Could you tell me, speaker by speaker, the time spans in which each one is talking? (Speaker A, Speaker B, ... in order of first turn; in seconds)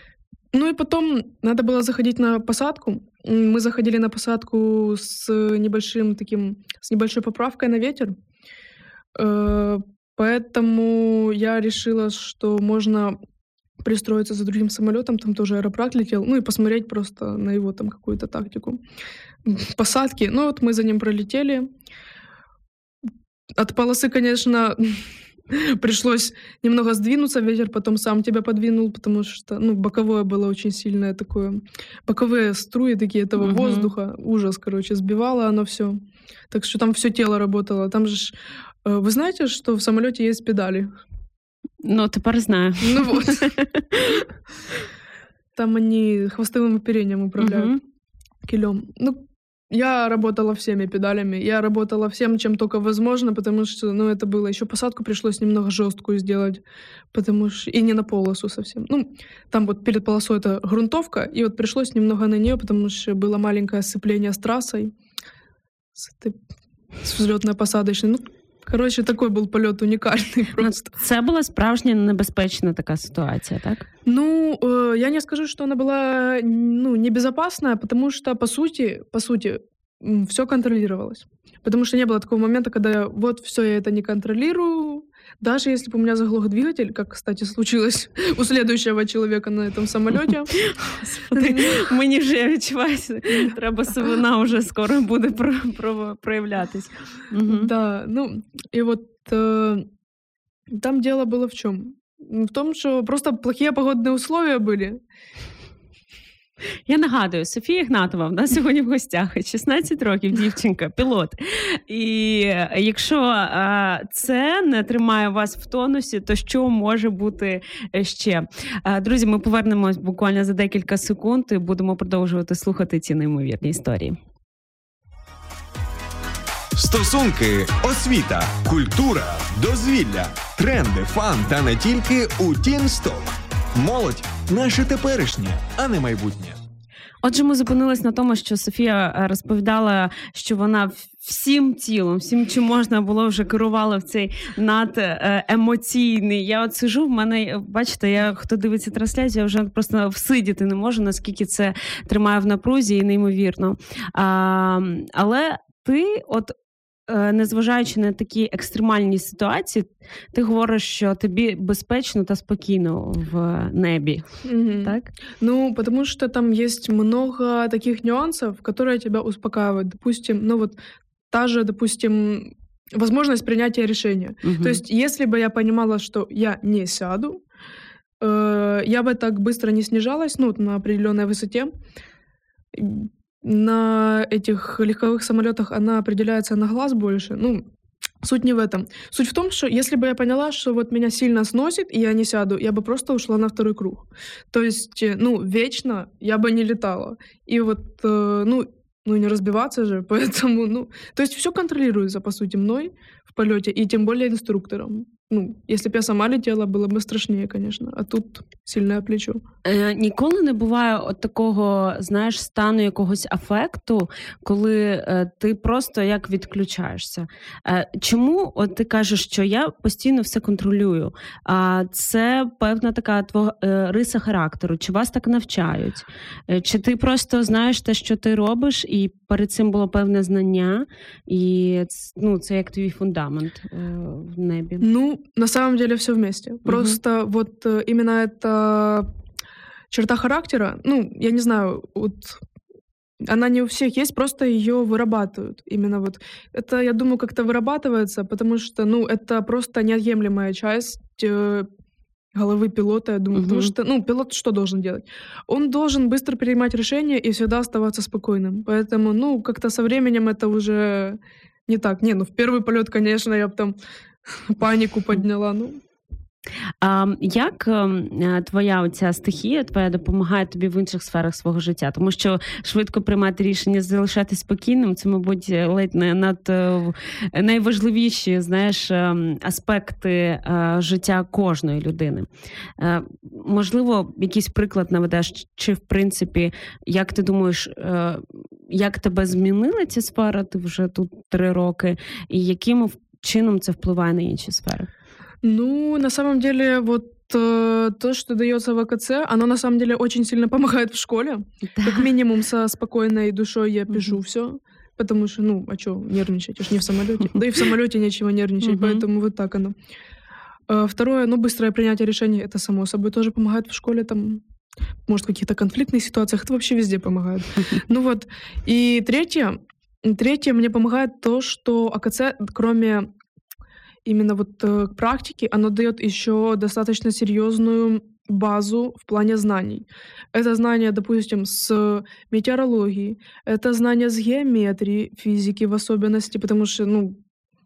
Speaker A: 0.5-8.1, 9.1-13.2, 13.8-18.8, 19.4-21.7, 23.5-38.3, 38.9-40.9, 42.8-43.4, 45.5-47.7, 48.4-56.6, 57.1-64.9, 66.0-66.4, 67.0-70.9, 74.0-90.5, 91.3-91.9, 97.4-99.9, 100.7-105.0, 164.4-170.8, 171.3-177.4, 178.2-181.7, 182.7-187.6, 188.2-209.4, 234.8-239.1, 239.9-242.4, 243.2-251.7, 252.3-263.8, 264.3-265.8, 295.4-309.7, 310.7-314.4, 315.1-323.1, 324.1-337.2
Speaker B: 33.4-33.9, 41.8-44.2, 47.4-47.8, 70.6-73.9, 90.5-97.7, 106.9-124.2, 137.2-156.5, 157.1-165.1, 174.4-174.8, 209.6-234.9, 236.7-237.0, 253.3-253.7, 266.8-282.3, 282.8-294.9, 301.8-302.1, 308.6-309.0
Speaker C: 126.8-136.6